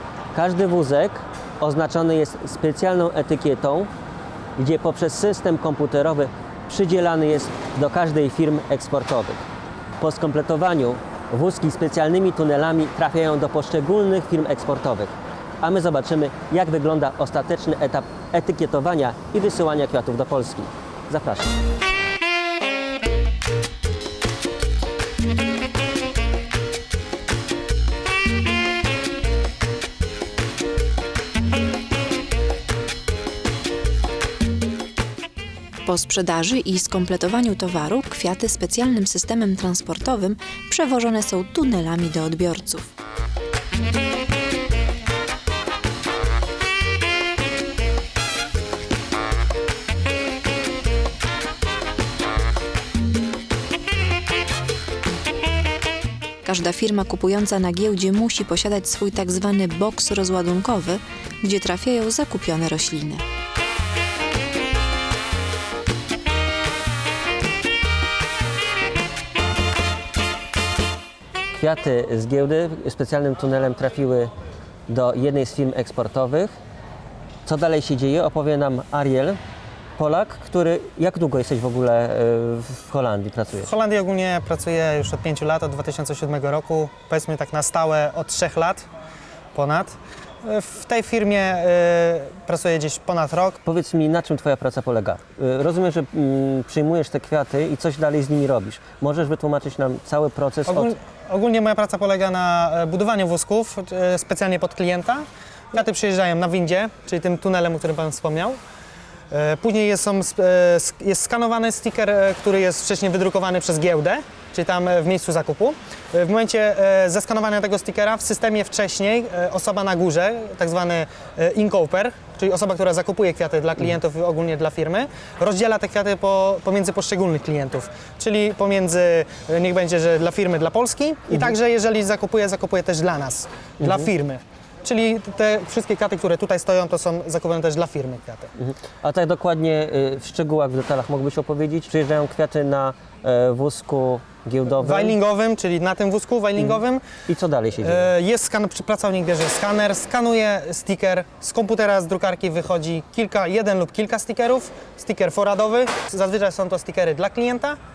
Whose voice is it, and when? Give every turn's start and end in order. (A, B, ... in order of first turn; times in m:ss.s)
0:00.3-0:03.9 A
0:04.6-0:09.4 A
0:10.0-0:21.5 A
0:35.8-0:42.9 B
0:56.4-1:03.2 B
1:11.5-1:14.3 A
1:14.9-1:16.5 A
1:17.4-1:19.4 A
1:20.0-1:23.7 A
1:23.6-1:28.8 C
1:29.5-1:33.6 C
1:33.6-1:40.9 A
1:40.7-1:48.6 C
1:49.3-2:18.5 C
2:18.6-2:25.1 A
2:24.8-2:27.0 C
2:27.3-2:28.1 A
2:27.8-2:37.8 C